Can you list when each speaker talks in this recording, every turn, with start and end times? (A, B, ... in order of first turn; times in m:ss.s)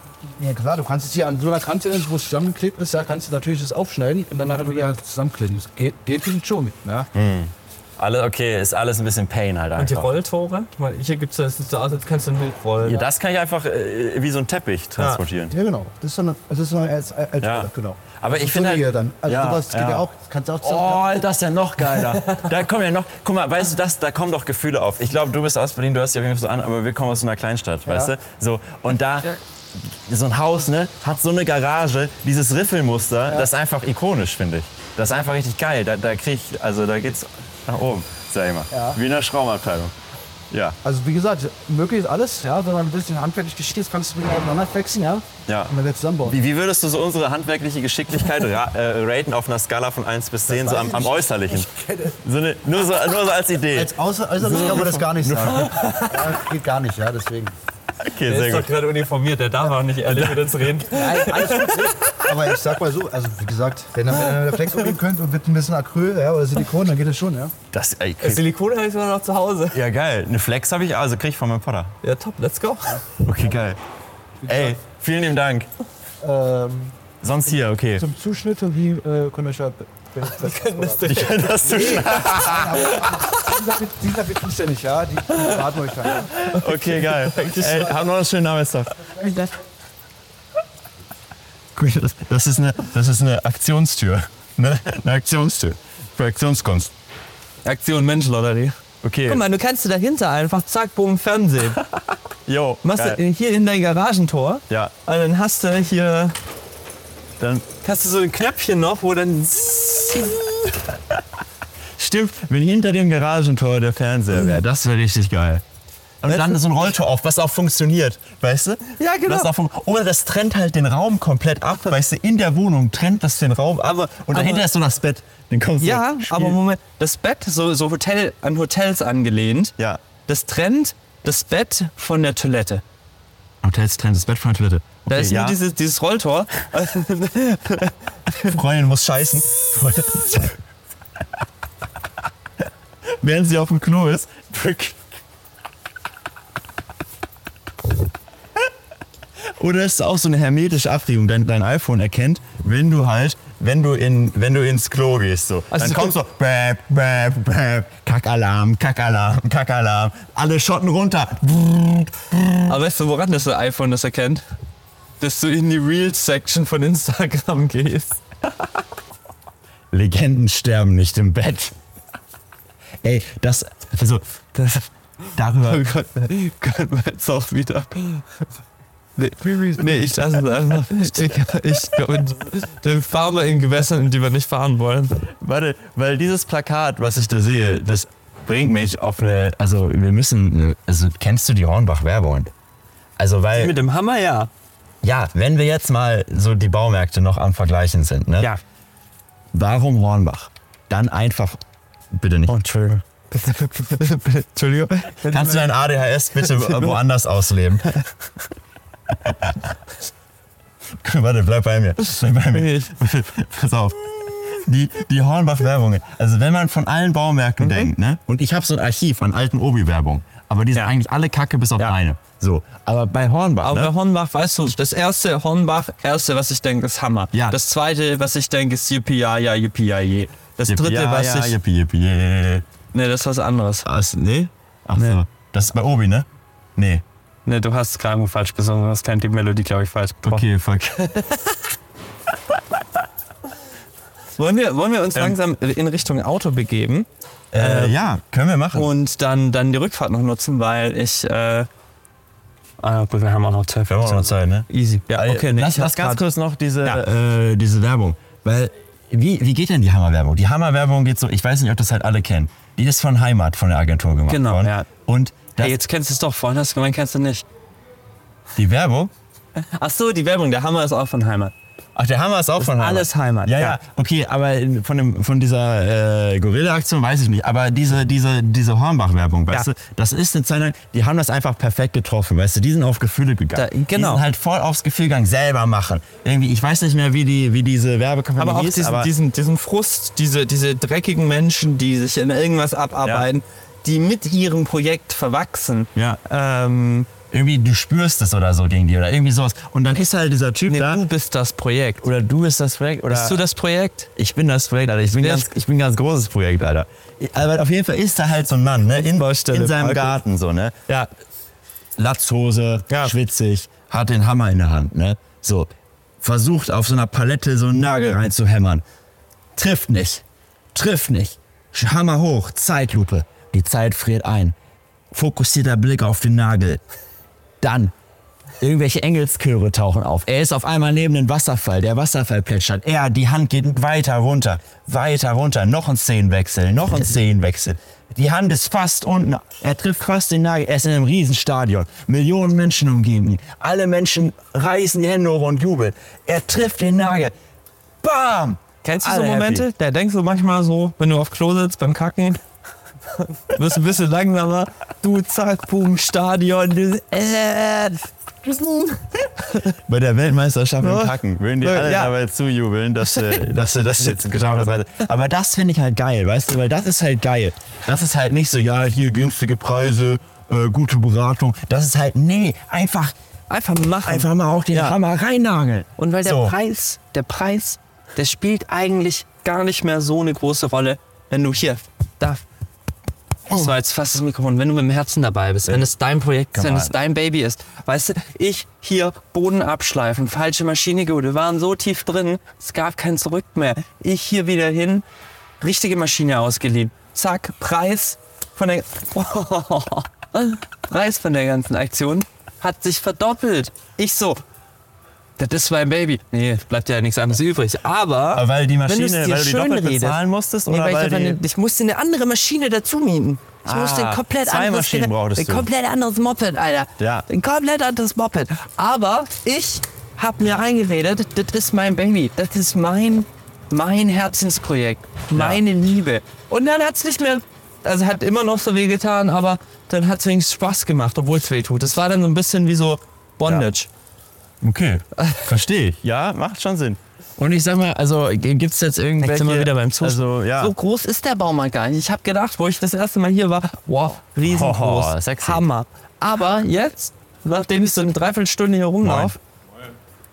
0:00.4-0:07.1 A
0:07.1-0:10.2 B
0:09.8-0:13.1 C
0:12.8-0:15.5 B
0:15.5-0:21.0 A
0:17.4-0:20.1 B
0:20.6-0:39.9 B
0:22.0-0:22.5 C
0:27.9-0:28.1 A
0:38.7-0:39.0 A
0:40.5-0:40.8 B
0:40.8-0:46.4 A
0:45.5-0:45.7 B
0:46.2-0:56.1 B
0:50.5-0:52.2 A
0:53.7-0:57.5 A
0:55.4-0:56.4 C
0:58.0-0:58.7 B
0:58.2-1:02.4 C
1:00.1-1:00.4 B
1:00.9-1:07.5 A
1:04.1-1:04.8 C
1:07.7-1:08.4 B
1:08.2-1:09.8 C
1:09.7-1:11.9 B
1:12.0-1:13.0 C
1:13.2-1:13.8 B
1:14.4-1:14.8 A
1:14.5-1:15.7 B
1:16.2-1:17.0 A
1:17.2-1:18.0 B
1:18.0-1:26.3 A
1:20.2-1:23.6 C
1:21.0-1:22.9 B
1:25.3-1:27.9 C
1:26.4-1:29.1 B
1:31.8-1:36.9 B
1:37.6-1:41.8 C
1:39.0-1:39.4 B
1:42.5-1:43.2 B
1:42.8-1:46.4 C
1:47.4-1:47.7 B
1:47.8-1:50.8 C
1:52.0-1:55.6 B
1:56.2-2:06.6 B
1:56.3-1:56.6 C
1:59.0-1:59.5 C
2:04.3-2:04.7 C
2:05.8-2:09.7 C
2:10.3-2:12.8 C
2:13.6-2:15.6 B
2:15.1-2:18.6 C
2:18.5-2:20.6 B
2:23.1-2:25.0 B
2:29.6-2:42.8 B
2:35.7-2:36.2 C
2:42.7-2:44.4 C
2:45.2-2:48.2 C
2:49.9-2:51.8 B
2:53.0-2:54.8 B
2:55.4-2:55.8 B
2:55.6-2:58.4 C
2:59.2-3:05.2 C
3:05.2-3:12.5 B
3:13.2-3:13.8 B
3:13.5-3:14.5 C
3:15.0-3:18.5 B
3:19.5-3:21.6 B
3:22.1-3:22.6 B
3:22.5-3:25.7 C
3:25.3-3:27.9 B
3:26.4-3:27.0 C
3:29.1-3:29.8 B
3:31.0-3:43.9 B
3:32.5-3:32.9 C
3:37.6-3:37.9 C
3:43.6-3:51.6 C
3:47.3-3:47.6 B
3:50.7-3:52.7 B
3:52.9-3:53.9 C
3:53.8-3:57.0 B
3:57.5-4:00.5 C
4:00.2-4:01.3 B
4:04.4-4:08.0 C
4:07.5-4:08.9 B
4:08.7-4:11.7 C
4:12.8-4:16.2 C
4:13.9-4:25.8 B
4:24.3-4:24.9 C
4:25.6-4:27.4 C
4:28.6-4:29.1 B
4:29.6-4:31.5 C
4:32.0-4:49.1 B
4:32.6-4:33.8 C
4:43.5-4:44.2 C
4:48.4-4:57.1 C
4:56.0-4:56.2 B
4:57.3-5:01.0 B
5:00.7-5:02.1 C
5:02.0-5:03.4 B
5:03.1-5:04.1 C
5:04.2-5:10.8 B
5:05.2-5:05.5 C
5:09.0-5:10.2 C
5:12.0-5:15.7 B
5:16.2-5:18.8 B
5:19.6-5:24.6 B
5:25.1-5:26.8 B
5:27.6-5:27.9 B
5:28.6-5:47.3 B
5:48.0-5:49.7 B
5:48.8-5:52.4 C
5:53.2-5:59.8 C
5:59.8-6:13.2 B
6:00.8-6:02.1 C
6:03.1-6:03.5 C
6:13.5-6:15.0 C
6:14.0-6:16.5 B
6:16.0-6:22.4 C
6:23.5-6:35.0 C
6:25.7-6:25.9 B
6:26.5-6:26.9 B
6:35.6-6:44.4 C
6:45.4-7:13.9 C
6:48.3-6:51.4 B
6:53.6-6:55.7 B
6:57.0-6:57.3 B
7:05.3-7:05.6 B
7:14.6-7:20.8 B
7:15.2-7:15.5 C
7:19.2-7:29.4 C
7:24.4-7:25.6 B
7:29.0-7:29.3 B